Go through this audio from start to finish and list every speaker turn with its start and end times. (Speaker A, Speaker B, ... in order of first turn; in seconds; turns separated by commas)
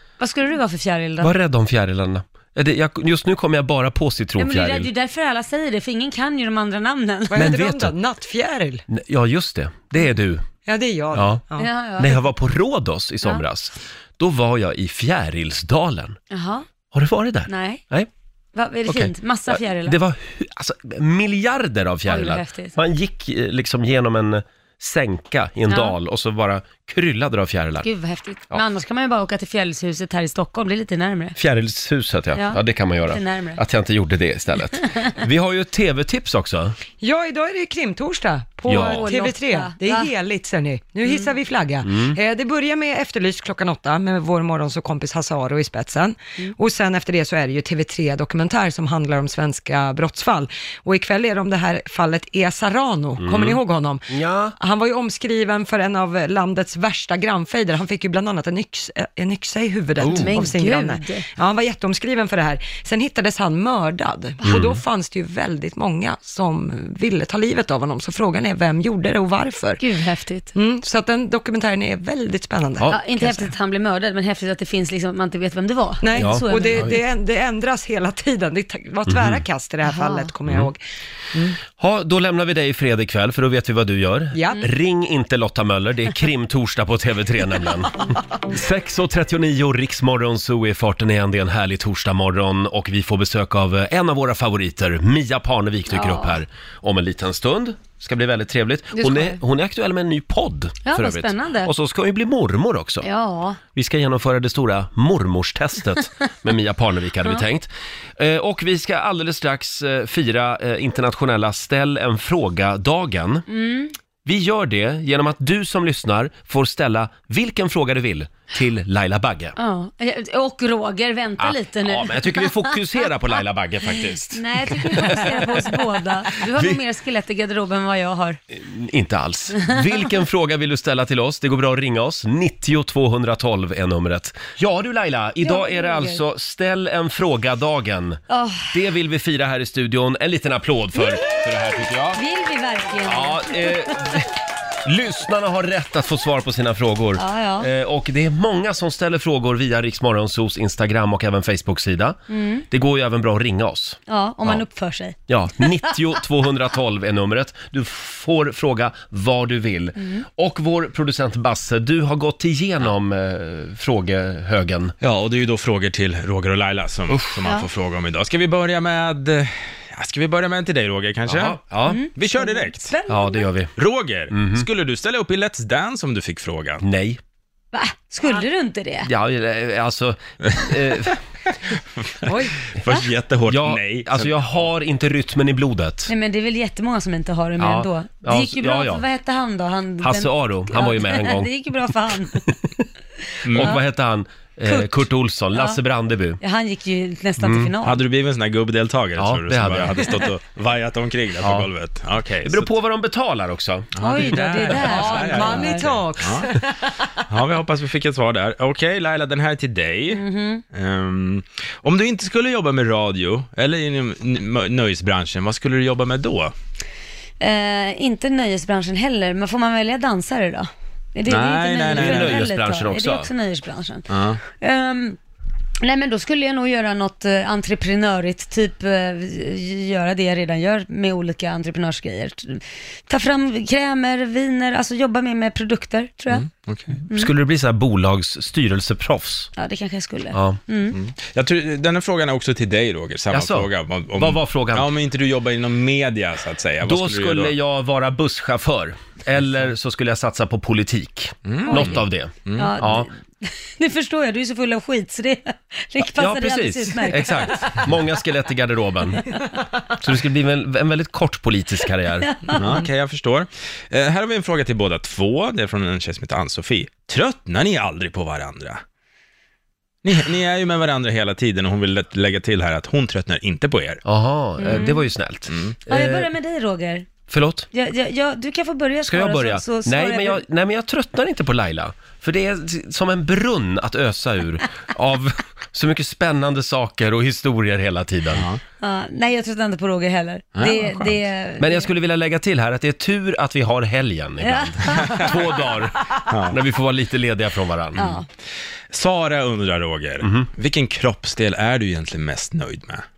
Speaker A: 0.2-1.3, Speaker B: 1.2-4.9, Speaker A: 4.4-7.5, Speaker C: 7.3-8.8, Speaker B: 7.3-8.0, Speaker B: 8.9-10.4, Speaker C: 10.6-11.7, Speaker B: 11.1-11.4, Speaker A: 11.6-12.2, Speaker B: 12.0-16.2, Speaker A: 16.3-16.6, Speaker B: 16.9-18.1, Speaker A: 17.5-17.8, Speaker A: 18.5-20.0, Speaker B: 18.9-27.9, Speaker A: 22.1-22.7, Speaker A: 25.7-25.9, Speaker A: 27.8-31.4, Speaker B: 31.4-36.8, Speaker A: 32.3-33.6, Speaker A: 34.8-35.1, Speaker C: 37.0-69.8, Speaker B: 38.7-39.0, Speaker A: 38.7-40.1, Speaker B: 41.8-42.2, Speaker B: 53.2-54.5, Speaker B: 60.0-60.3, Speaker A: 60.1-61.2, Speaker B: 64.4-64.8, Speaker A: 69.8-70.5, Speaker C: 70.5-73.5, Speaker A: 72.9-76.9, Speaker C: 76.0-80.8, Speaker B: 76.2-76.9, Speaker B: 79.1-79.4, Speaker A: 79.8-80.3, Speaker B: 81.7-87.9, Speaker C: 84.3-84.6, Speaker B: 88.5-103.1, Speaker A: 95.9-96.4, Speaker A: 98.9-99.4, Speaker A: 100.8-101.7, Speaker A: 103.0-103.6, Speaker B: 103.7-113.5, Speaker A: 113.5-113.9, Speaker B: 114.2-119.5, Speaker A: 119.6-122.8, Speaker B: 121.4-125.8, Speaker A: 124.2-128.4, Speaker B: 126.3-126.8, Speaker B: 128.5-142.2, Speaker A: 135.4-136.2, Speaker A: 138.3-138.7, Speaker A: 142.1-143.9, Speaker B: 143.0-144.3, Speaker B: 144.8-152.2, Speaker A: 147.2-147.7, Speaker A: 152.3-152.6, Speaker B: 152.7-154.6, Speaker A: 154.1-156.2, Speaker B: 155.3-164.9, Speaker A: 160.0-160.2, Speaker D: 165.0-171.6, Speaker B: 167.1-167.4, Speaker B: 171.2-172.0, Speaker A: 171.8-173.4, Speaker D: 172.2-172.9, Speaker B: 173.1-173.7, Speaker D: 173.8-176.8, Speaker B: 174.3-174.7, Speaker B: 176.8-177.2, Speaker A: 177.7-179.1, Speaker B: 179.0-181.2, Speaker D: 180.4-180.7, Speaker D: 182.0-184.3, Speaker C: 182.2-182.5, Speaker B: 183.5-186.1, Speaker A: 186.1-192.4, Speaker B: 187.6-189.0, Speaker B: 190.0-191.5, Speaker B: 192.2-192.8, Speaker D: 193.4-193.8, Speaker B: 193.5-196.4, Speaker A: 194.7-195.0, Speaker A: 195.5-195.8, Speaker A: 196.4-198.0, Speaker B: 197.4-197.8, Speaker D: 197.8-202.7, Speaker B: 199.2-200.2, Speaker B: 201.4-201.7, Speaker B: 202.4-205.5, Speaker D: 203.9-206.4, Speaker A: 204.0-205.9, Speaker C: 204.8-207.1, Speaker D: 207.3-210.2, Speaker A: 210.1-210.6, Speaker D: 210.7-216.5, Speaker A: 217.4-224.1, Speaker D: 221.3-222.4, Speaker B: 221.9-223.3, Speaker D: 224.1-224.4, Speaker A: 224.6-225.2, Speaker A: 225.8-236.4, Speaker D: 236.3-237.0, Speaker B: 237.1-239.5, Speaker A: 239.6-240.9, Speaker B: 240.3-240.6, Speaker D: 240.9-247.5, Speaker B: 243.3-244.9, Speaker B: 246.8-253.1, Speaker D: 251.4-252.8, Speaker A: 251.7-251.9, Speaker A: 252.6-257.9, Speaker B: 256.1-259.2, Speaker B: 260.0-262.3, Speaker A: 262.3-262.6, Speaker D: 262.5-268.8, Speaker D: 270.0-274.0, Speaker B: 274.0-276.3, Speaker A: 274.6-275.0, Speaker D: 275.5-275.8, Speaker A: 275.9-277.1, Speaker B: 277.3-277.7, Speaker A: 277.7-280.4, Speaker B: 279.0-288.4, Speaker D: 288.3-288.6, Speaker A: 288.8-291.9, Speaker D: 290.6-290.9, Speaker B: 291.6-298.0, Speaker A: 294.4-295.3, Speaker D: 295.0-295.3, Speaker D: 296.3-296.6, Speaker A: 298.0-298.2, Speaker D: 298.9-303.0, Speaker B: 300.2-300.5